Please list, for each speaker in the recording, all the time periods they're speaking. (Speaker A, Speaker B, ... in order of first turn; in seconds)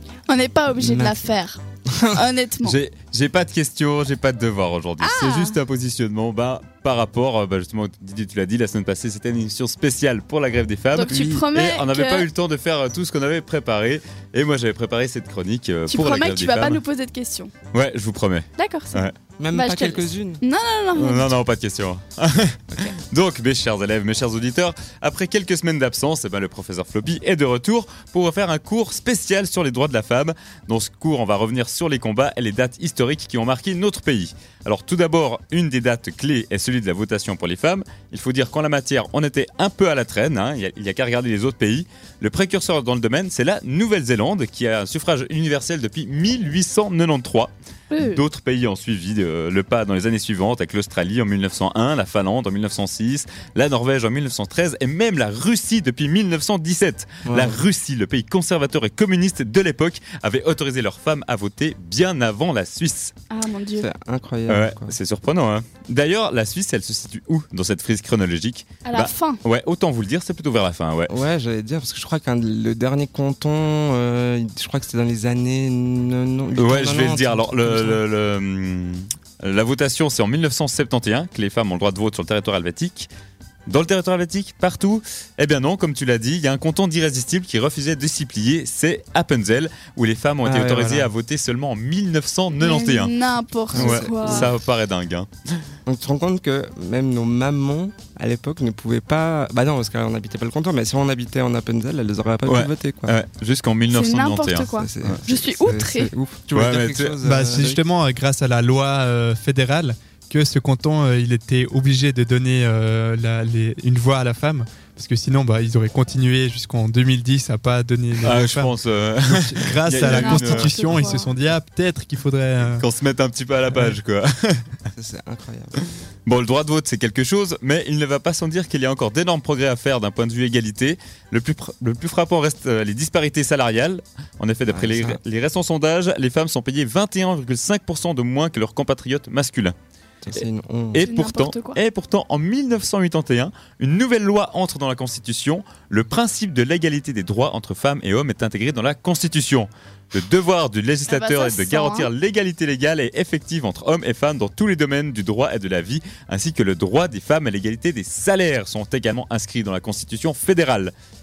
Speaker A: 0.3-1.6, 2.1-2.8, 5.0-5.6, 10.9-12.3, 15.9-17.5, 18.6-21.4, 47.9-48.2, 63.3-63.9, 68.8-69.4, 92.6-94.5, 103.9-106.1, 119.9-121.4, 141.0-141.8, 151.1-152.1
Speaker B: 0.8-1.2, 1.9-2.2, 11.1-11.4, 19.4-20.4, 57.2-57.6, 63.8-65.0, 71.1-78.0, 90.4-91.1, 93.7-94.5, 95.9-103.2, 104.6-107.8, 124.9-125.8, 134.7-135.2, 140.2-141.1
Speaker C: 2.6-16.8, 17.7-19.1, 20.9-63.1, 64.5-71.1, 76.5-83.1, 83.7-93.1, 93.7-95.6, 102.5-105.2, 106.5-107.1, 118.2-121.0, 122.6-124.7, 126.3-139.7, 140.9-160.9
Speaker D: 107.2-122.8